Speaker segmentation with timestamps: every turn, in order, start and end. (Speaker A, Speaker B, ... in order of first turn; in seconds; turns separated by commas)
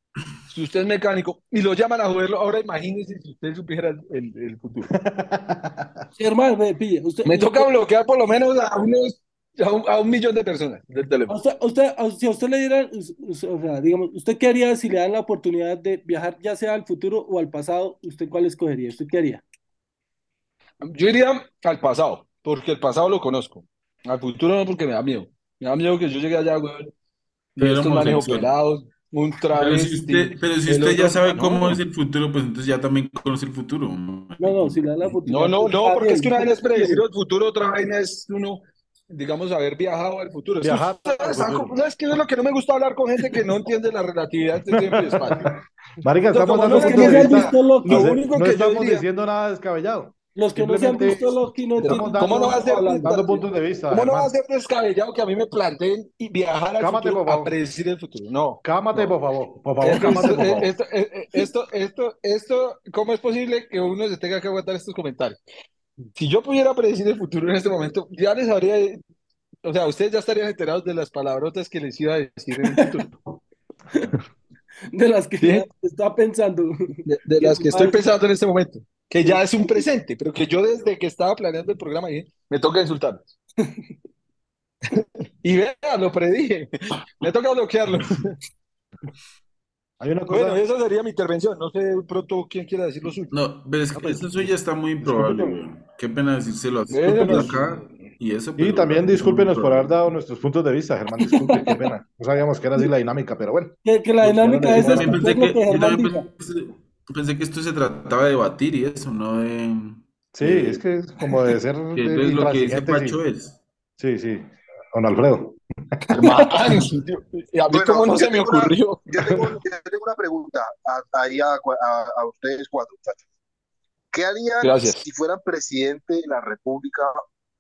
Speaker A: 0.5-4.9, Speaker B: 4.9-5.9, Speaker C: 6.2-7.7, Speaker A: 7.2-11.4, Speaker C: 11.3-19.4, Speaker A: 20.8-26.9, Speaker A: 27.6-31.8, Speaker D: 27.6-28.5, Speaker D: 29.5-35.1, Speaker C: 34.4-37.0, Speaker A: 35.3-45.5, Speaker B: 40.6-41.8, Speaker B: 46.0-54.3, Speaker A: 46.3-49.0, Speaker C: 46.7-48.1, Speaker C: 50.4-53.1, Speaker A: 51.8-59.1, Speaker B: 56.8-57.5, Speaker B: 58.6-60.7, Speaker A: 59.8-65.4, Speaker A: 66.2-69.0, Speaker A: 69.6-73.1, Speaker C: 74.9-78.0, Speaker A: 75.4-75.7, Speaker A: 77.0-83.3, Speaker C: 79.2-79.8, Speaker A: 85.4-88.4, Speaker B: 90.0-90.6, Speaker A: 90.3-93.3, Speaker D: 93.3-100.0, Speaker B: 94.0-94.5, Speaker B: 95.0-95.6, Speaker A: 96.9-97.9, Speaker B: 97.2-97.5, Speaker B: 98.6-105.2, Speaker C: 101.2-101.8, Speaker C: 103.8-106.3, Speaker D: 104.7-110.8, Speaker B: 110.4-113.2, Speaker D: 111.9-113.6, Speaker B: 114.0-115.6, Speaker A: 116.1-119.0, Speaker E: 117.7-123.2, Speaker B: 119.2-119.5, Speaker E: 124.1-127.2, Speaker A: 124.6-125.0